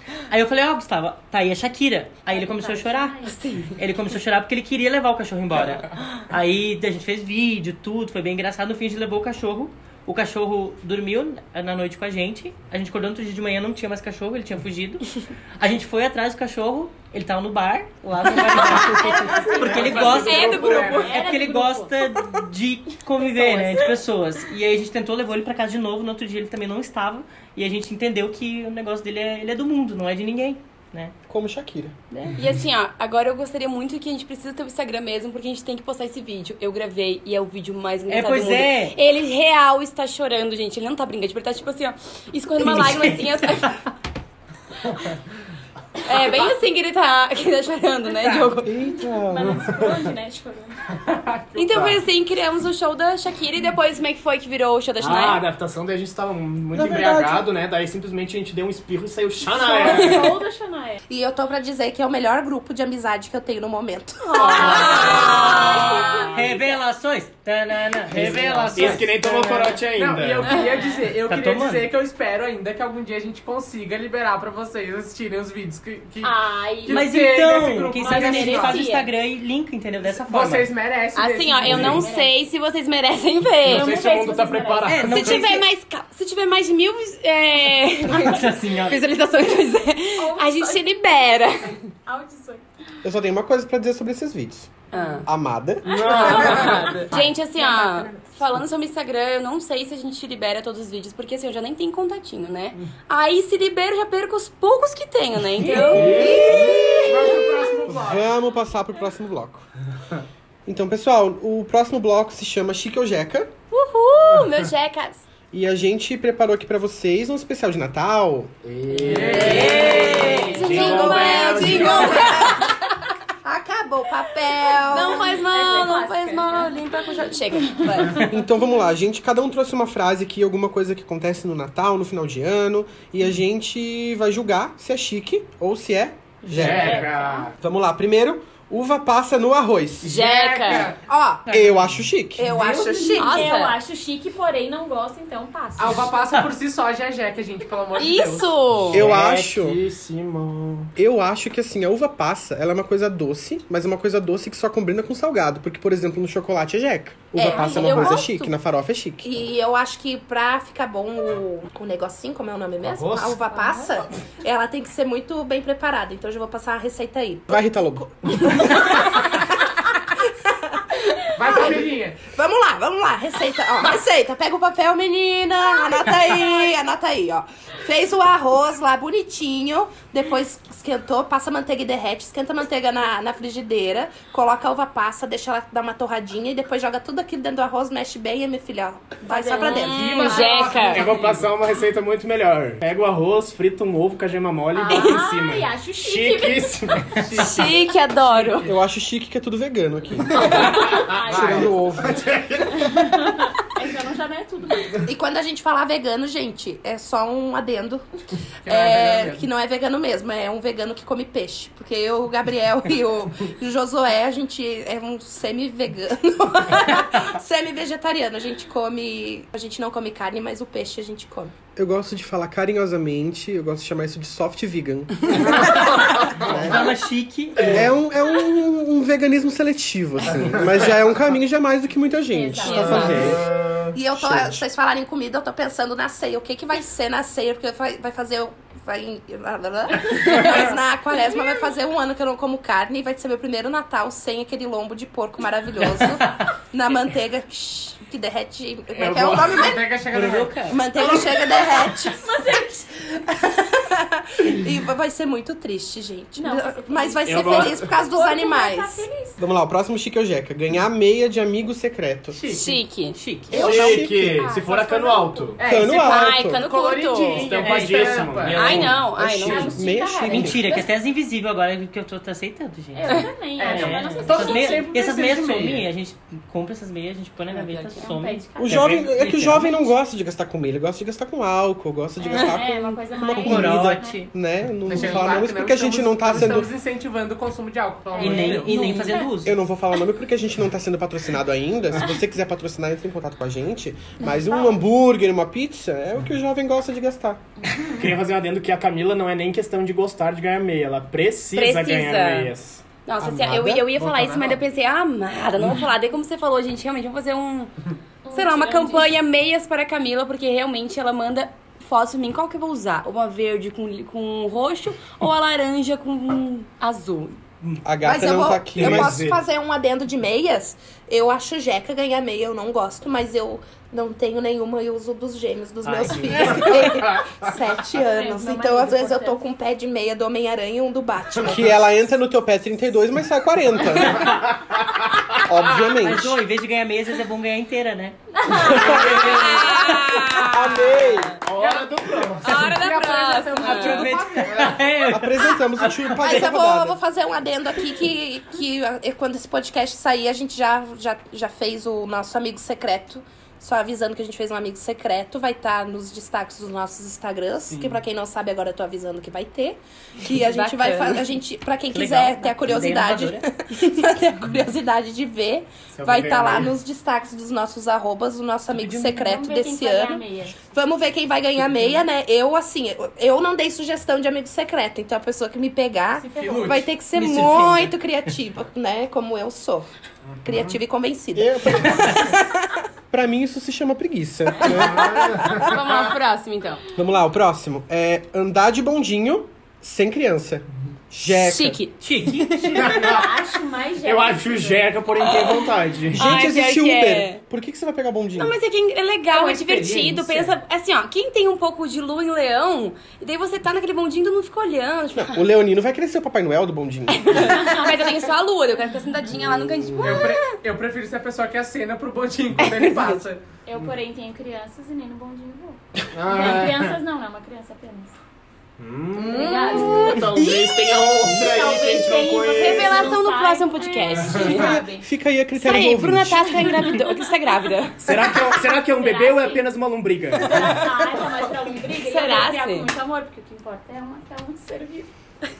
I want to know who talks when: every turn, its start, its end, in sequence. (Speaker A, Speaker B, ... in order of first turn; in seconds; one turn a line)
Speaker A: 0.3-3.2
Speaker B: 2.3-3.4
Speaker C: 3.2-3.8
Speaker A: 3.8-31.1
Speaker B: 18.2-22.2
Speaker C: 18.3-21.3
Speaker D: 19.6-21.2
Speaker B: 23.4-23.9
Speaker E: 31.3-32.0
Speaker A: 32.1-32.4
Speaker C: 32.4-43.7
Speaker A: 38.1-39.0
Speaker A: 42.6-43.8
Speaker C: 46.0-48.7
Speaker B: 48.2-50.8
Speaker E: 48.6-49.7
Speaker D: 51.0-51.9
Speaker C: 51.5-55.4
Speaker F: 51.7-52.0
Speaker F: 55.0-60.3
Speaker E: 56.7-57.5
Speaker B: 59.5-61.0
Speaker C: 59.9-60.3
Speaker G: 61.1-65.2
Speaker C: 64.2-66.3
Speaker B: 64.4-66.8
Speaker A: 65.0-65.4
Speaker A: 66.3-69.7
Speaker F: 68.1-70.5
Speaker D: 68.2-78.8
Speaker B: 70.5-71.0
Speaker A: 71.3-71.9
Speaker B: 76.2-77.1
Speaker A: 76.9-80.7
Speaker B: 77.7-78.8
Speaker C: 78.0-79.1
Speaker D: 80.0-82.1
Speaker C: 81.1-83.9
Speaker B: 81.6-82.3
Speaker B: 83.6-85.1
Speaker D: 83.7-85.5
Speaker A: 84.9-85.6
Speaker C: 85.0-91.8
Speaker A: 88.1-89.0
Speaker B: 90.2-90.9
Speaker B: 92.0-92.6
Speaker E: 93.0-96.9
Speaker C: 94.9-95.3
Speaker B: 94.9-95.2
Speaker F: 95.8-97.2
Speaker C: 95.8-107.4
Speaker B: 96.2-97.0
Speaker G: 97.6-98.2
Speaker F: 105.7-106.8
Speaker E: 106.0-107.1
Speaker D: 106.8-108.3
Speaker E: 107.8-109.7
Speaker E: 110.7-113.5
Speaker C: 113.7-115.2
Speaker F: 114.2-114.6
Speaker E: 115.5-118.5
Speaker F: 118.6-122.3
Speaker D: 119.0-120.5
Speaker C: 119.1-122.7
Speaker B: 119.4-121.3
Speaker G: 120.6-122.7
Speaker G: 123.4-125.3
Speaker C: 124.9-128.3
Speaker B: 124.9-126.8
Speaker B: 127.8-128.3
Speaker E: 128.2-140.2
Speaker B: 136.4-137.5
Speaker F: 136.5-137.5
Speaker D: 140.0-141.8
Speaker C: 140.0-140.9
Speaker G: 141.1-141.6
Speaker E: 141.5-142.5
Speaker G: 142.3-143.6
Speaker D: 142.5-143.1
Speaker B: 142.7-146.1
Speaker C: 143.2-143.8
Speaker D: 145.8-148.6
Speaker C: 148.0-149.0
Speaker F: 148.9-150.9
Speaker E: 148.9-149.8
Speaker E: 150.9-159.3
Speaker G: 157.3-158.5
Speaker B: 157.4-158.2
Speaker G: 159.2-190.4
Speaker F: 162.8-163.4
Speaker B: 163.4-164.0
Speaker E: 167.5-168.3
Speaker D: 171.3-172.2
Speaker B: 189.3-190.9
Speaker D: 189.5-191.5
Speaker C: 189.5-191.1
Speaker F: 190.8-197.3
Speaker B: 194.7-197.2
Speaker C: 194.9-195.2
Speaker D: 197.1-198.7
Speaker C: 197.3-198.7
Speaker E: 198.7-202.2
Speaker F: 200.3-203.0
Speaker B: 200.6-202.0
Speaker B: 202.7-204.9
Speaker G: 205.0-208.0
Speaker D: 208.6-209.4
Speaker G: 208.7-221.5
Speaker E: 221.8-225.7
Speaker F: 225.4-225.7
Speaker A: 226.2-227.8
Speaker F: 226.3-226.9
Speaker E: 226.4-226.9
Speaker F: 227.6-227.9
Speaker E: 227.6-233.6
Speaker F: 230.3-230.6
Speaker B: 232.3-233.4
Speaker C: 232.6-233.4
Speaker F: 232.8-233.9
Speaker G: 233.9-250.0
Speaker E: 234.1-234.6
Speaker F: 248.9-249.8
Speaker D: 249.4-250.8
Speaker A: 250.1-250.8
Speaker G: 250.7-252.5
Speaker B: 251.2-253.0
Speaker G: 253.2-259.0
Speaker B: 256.4-259.4
Speaker F: 257.2-257.8
Speaker E: 259.4-262.4
Speaker D: 262.3-262.8
Speaker C: 262.5-263.2
Speaker A: 263.1-263.8
Speaker E: 263.5-264.4
Speaker F: 263.5-265.6
Speaker B: 263.8-265.6
Speaker D: 265.6-268.9
Speaker E: 265.6-266.6
Speaker C: 265.8-267.5
Speaker F: 267.3-269.1
Speaker C: 268.5-269.7
Speaker E: 269.1-270.6
Speaker B: 269.4-270.9
Speaker A: 270.3-278.4
Speaker B: 272.9-275.2
Speaker D: 273.6-275.9
Speaker B: 277.5-278.9
Speaker C: 277.5-278.1
Speaker E: 278.6-286.7
Speaker F: 278.7-279.7
Speaker B: 282.2-284.3
Speaker C: 282.3-282.6
Speaker A: 283.4-284.1
Speaker D: 284.9-289.0
Speaker B: 288.1-289.3
Speaker A: 288.2-289.6
Speaker E: 289.4-297.4
Speaker B: 294.3-294.8
Speaker F: 297.8-302.8
Speaker C: 301.5-302.5
Speaker C: 303.0-307.7
Speaker E: 303.2-303.9
Speaker D: 303.9-304.6
Speaker B: 308.2-309.1
Speaker C: 308.3-317.4
Speaker E: 317.8-319.2
Speaker G: 318.0-332.1
Speaker F: 318.8-319.4
Speaker A: 325.8-326.9
Speaker F: 326.8-327.4
Speaker B: 327.9-329.4
Speaker E: 331.4-334.3
Speaker E: 335.4-336.4
Speaker D: 335.5-336.0
Speaker A: 335.9-338.2
Speaker B: 338.4-339.7
Speaker E: 338.5-339.7
Speaker C: 338.6-341.3
Speaker A: 339.6-340.4
Speaker E: 340.4-341.4
Speaker F: 341.4-342.7
Speaker D: 341.6-344.6
Speaker C: 342.4-344.2
Speaker A: 343.4-346.3
Speaker F: 344.4-344.8
Speaker E: 345.0-347.0
Speaker G: 346.2-379.9
Speaker D: 357.7-358.0
Speaker C: 360.2-361.2
Speaker A: 361.9-363.4
Speaker F: 365.9-366.7
Speaker B: 368.9-370.6
Speaker D: 376.4-376.9
Speaker A: 377.1-377.9
Speaker F: 380.3-380.7
Speaker G: 380.4-382.8
Speaker E: 381.4-382.2
Speaker E: 383.1-385.6
Speaker G: 384.6-385.5
Speaker F: 384.6-385.7
Speaker C: 385.6-386.8
Speaker E: 386.9-391.8
Speaker C: 391.3-392.9
Speaker A: 392.0-392.5
Speaker B: 392.4-394.9
Speaker F: 392.8-393.3
Speaker F: 394.0-396.4
Speaker C: 395.1-395.6
Speaker E: 396.1-398.6
Speaker C: 396.1-397.4
Speaker C: 398.4-405.4
Speaker D: 399.3-400.5
Speaker E: 405.1-407.7
Speaker C: 407.1-410.4
Speaker B: 407.4-408.3
Speaker E: 409.8-410.3
Speaker D: 410.0-413.4
Speaker B: 413.7-418.1
Speaker F: 416.1-417.0
Speaker F: 418.8-423.2
Speaker B: 419.2-425.1
Speaker C: 419.3-420.1
Speaker C: 422.6-424.8
Speaker E: 424.4-426.7
Speaker C: 425.5-428.4
Speaker B: 426.6-426.9
Speaker F: 428.0-430.9
Speaker B: 428.2-429.7
Speaker B: 430.3-435.1
Speaker C: 430.5-430.8
Speaker C: 432.0-432.9